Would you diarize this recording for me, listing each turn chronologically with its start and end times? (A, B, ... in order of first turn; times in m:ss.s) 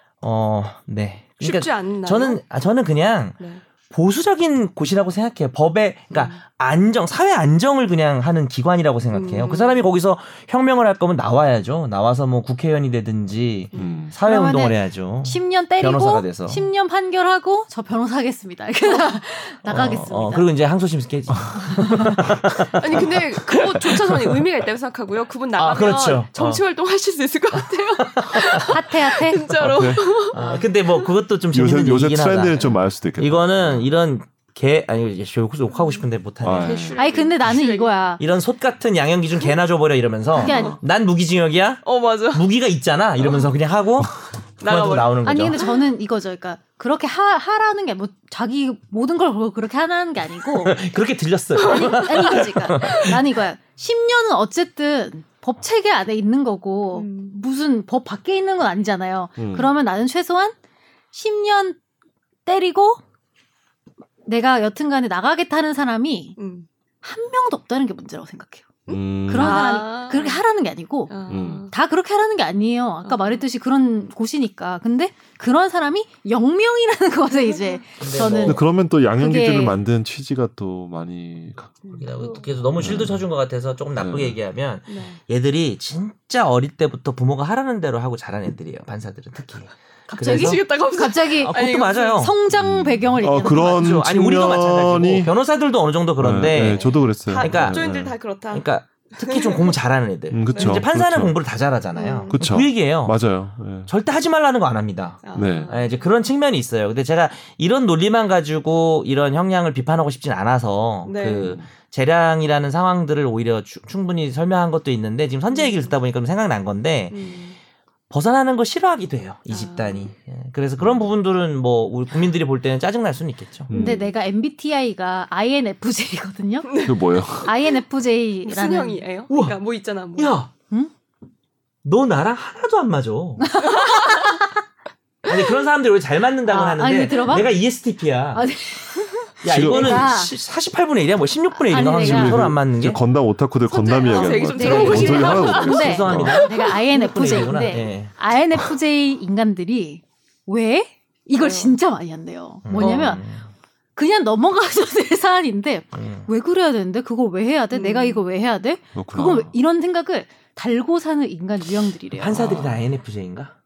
0:00.2-0:03.4 A
0:01.4-0:02.4 B
0:03.9-0:16.6 A
0:06.1-0:06.4 B
0:09.1-0:09.8 B
0:13.8-0:14.1 C
0:14.2-0:20.4 D
0:19.6-0:24.4 A
0:22.8-0:31.0 B
0:25.6-0:26.6 A
0:28.0-0:28.8 A
0:28.7-0:29.4 D
0:29.6-0:30.1 C
0:30.3-0:36.9 A
0:30.4-0:30.6 D
0:31.5-0:33.9 C
0:36.4-0:37.0 C
0:36.5-0:38.0 B
0:37.0-0:38.2 D
0:38.2-0:45.7 A
0:40.4-0:40.8 D
0:40.4-0:40.7 B
0:41.8-0:42.5 B
0:44.6-0:45.7 B
0:45.2-0:50.8 D
0:50.5-0:53.2 A
0:51.6-0:53.1 B
0:51.6-1:00.5 D
0:56.9-0:57.4 B
0:59.4-0:59.7 C
1:01.1-1:01.8 D
1:02.4-1:03.0 D
1:04.2-1:06.4 D
1:06.4-1:06.7 B
1:07.0-1:11.2 D
1:08.9-1:10.4 B
1:08.9-1:09.8 C
1:11.1-1:11.7 B
1:11.3-1:11.7 C
1:11.7-1:19.8 D
1:13.0-1:13.4 B
1:17.4-1:17.8 B
1:18.0-1:18.6 A
1:18.4-1:21.8 C
1:22.0-1:30.6 A
1:22.8-1:23.2 C
1:24.0-1:24.4 C
1:24.9-1:25.2 B
1:30.1-1:33.9 D
1:30.1-1:32.3 B
1:31.4-1:32.4 A
1:32.5-1:35.3 C
1:33.5-1:37.8 A
1:36.2-1:38.1 C
1:37.2-1:39.8 B
1:38.5-1:43.2 A
1:40.3-1:41.3 C
1:40.5-1:40.8 B
1:41.9-1:42.4 B
1:42.3-1:43.9 C
1:43.9-1:57.2 A
1:45.2-1:46.0 B
1:45.3-1:45.7 C
1:51.0-1:51.6 B
1:55.5-1:55.9 B
1:57.1-1:57.6 B
1:58.1-2:03.7 A
1:59.5-2:00.1 B
2:00.8-2:01.1 C
2:03.7-2:04.1 C
2:03.7-2:04.0 B
2:03.7-2:06.9 D
2:06.6-2:07.1 B
2:06.8-2:07.5 C
2:07.4-2:09.0 D
2:08.4-2:10.4 B
2:09.3-2:09.6 A
2:10.1-2:10.5 A
2:11.8-2:13.6 A
2:13.4-2:14.4 D
2:13.6-2:14.3 B
2:15.2-2:18.4 A
2:16.5-2:17.5 D
2:18.3-2:20.3 D
2:19.4-2:23.0 A
2:19.4-2:20.1 C
2:21.5-2:22.4 D
2:21.9-2:26.4 C
2:23.7-2:26.8 B
2:24.5-2:33.2 D
2:24.6-2:28.1 A
2:31.4-2:31.8 B
2:32.6-2:33.5 A
2:32.8-2:33.1 B
2:34.0-2:42.4 D
2:35.9-2:36.3 A
2:37.7-2:38.2 B
2:38.9-2:39.5 C
2:42.2-2:43.5 A
2:42.3-2:42.8 C